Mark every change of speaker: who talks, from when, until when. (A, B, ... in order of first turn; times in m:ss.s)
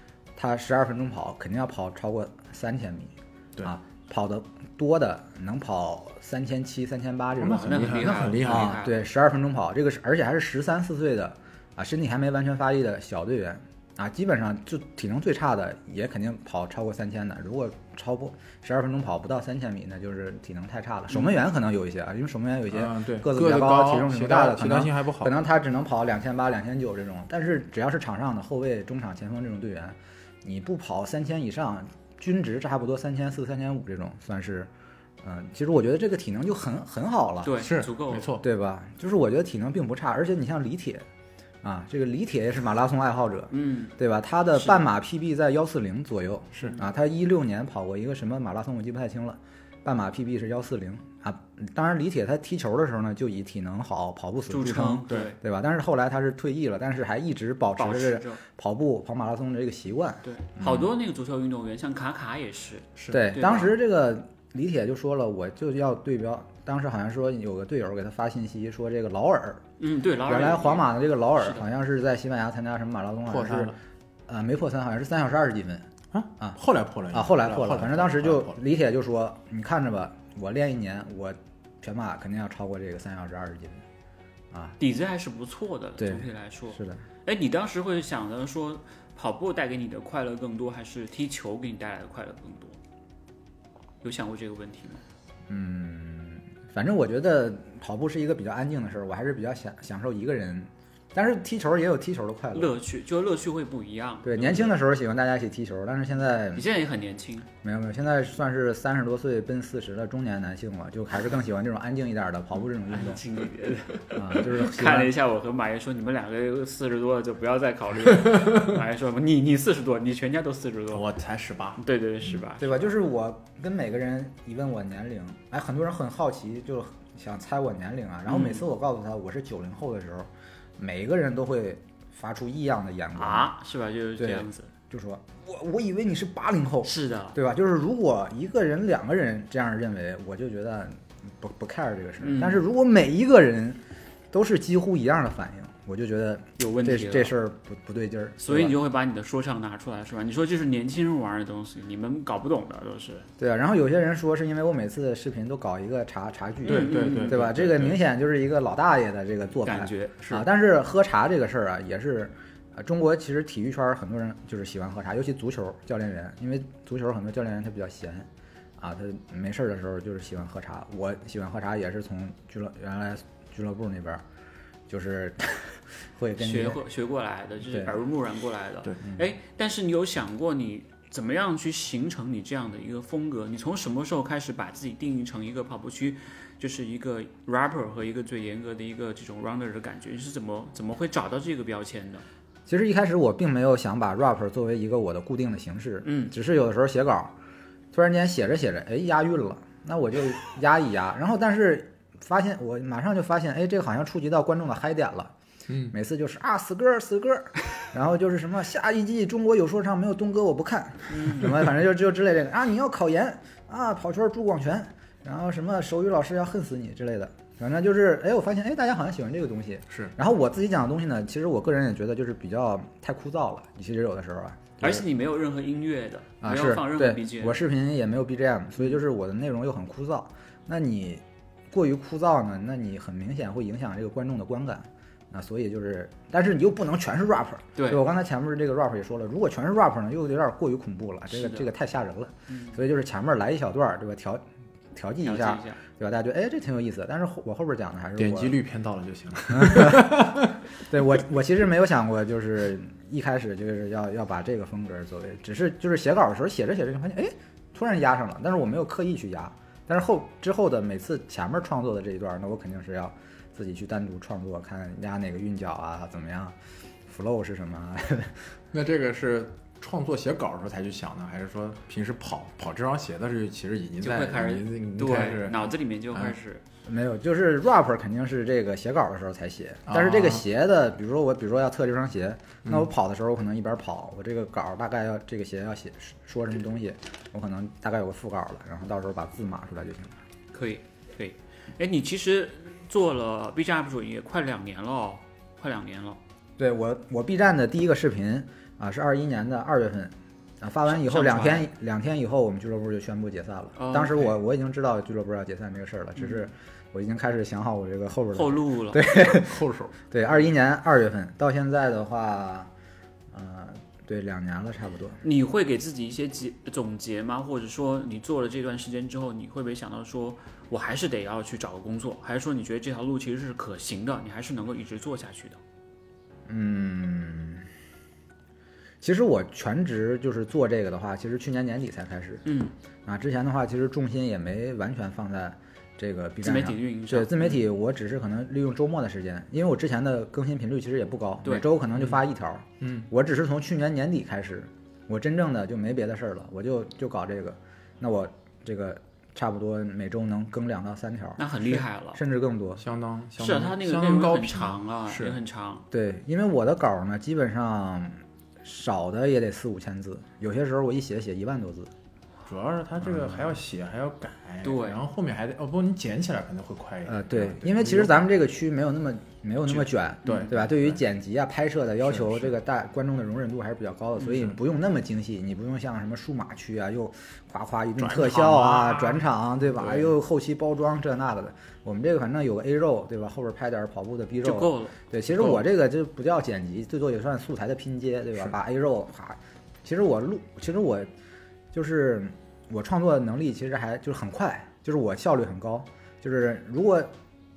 0:00.4-0:34.7 A
0:07.4-0:08.8 B
0:07.5-0:09.0 C
0:22.7-0:25.4 B
0:35.2-0:37.5 A
0:37.4-0:38.3 C
0:37.6-0:38.4 B
0:38.4-0:41.0 A
0:41.6-1:00.9 A
0:43.5-0:43.9 C
0:44.5-0:44.8 C
0:54.5-0:55.4 C
0:57.8-0:58.4 C
1:00.2-1:03.7 C
1:03.0-1:03.2 B
1:03.1-1:09.6 A
1:09.8-1:11.6 C
1:10.2-1:13.7 A
1:13.3-1:13.8 B
1:14.3-1:15.9 A
1:16.1-1:18.6 B
1:17.1-1:23.8 A
1:24.5-1:24.8 A
1:24.8-1:32.8 C
1:26.0-1:27.0 A
1:34.0-1:35.0 C
1:35.5-1:42.7 A
1:42.5-1:44.8 C
1:44.2-1:46.6 A
1:46.5-1:47.5 C
1:47.6-1:53.2 A
1:52.9-2:01.0 C
1:54.1-1:55.1 A
2:00.9-2:01.8 B
2:01.8-2:02.9 C
2:02.6-2:13.5 A
2:08.3-2:08.6 C
2:13.1-2:14.7 C
2:14.2-2:28.8 A
2:16.8-2:17.4 C
2:22.2-2:22.6 C
2:26.6-2:27.3 C
2:28.4-2:33.3 C
2:33.4-2:54.2 A
2:36.6-2:38.0 B
2:36.6-2:37.4 C
2:39.6-2:40.3 C
2:54.9-2:56.8 A
2:56.4-3:12.2 C
2:57.6-2:57.9 A
3:12.6-3:17.3 A
3:16.0-3:16.3 C
3:17.9-3:25.3 A
3:25.7-3:25.9 B
3:25.9-3:45.0 A
3:31.1-3:31.5 C
3:44.8-3:47.6 C
3:46.4-4:08.6 A
3:57.8-3:58.0 C
4:01.3-4:01.7 C
4:02.5-4:02.8 C
4:05.2-4:05.8 C
4:08.2-4:10.6 B
4:09.5-4:26.6 A
4:27.1-4:28.4 A
4:28.7-4:35.6 B
4:34.0-4:36.6 C
4:36.8-4:50.2 A
4:39.9-4:40.4 B
4:50.5-4:56.2 C
4:56.6-5:12.7 A
5:00.9-5:01.7 C
5:03.8-5:04.4 C
5:08.3-5:09.2 C
5:09.3-5:09.9 B
5:13.3-5:15.2 A
5:15.2-5:25.6 C
5:26.5-5:27.7 A
5:29.0-5:32.4 A
5:32.4-5:32.7 C
5:33.0-5:52.8 A
5:36.4-5:37.6 C
5:42.8-5:43.1 B
5:51.4-5:52.2 C
5:52.8-5:55.4 B
5:53.4-5:55.8 C
5:55.9-6:01.9 A
6:02.4-6:08.2 B
6:04.6-6:05.0 C
6:07.0-6:31.1 A
6:09.7-6:11.0 B
6:10.2-6:10.5 C
6:12.0-6:12.5 B
6:18.0-6:20.1 B
6:24.4-6:24.9 C
6:25.3-6:25.6 B
6:31.7-6:37.1 A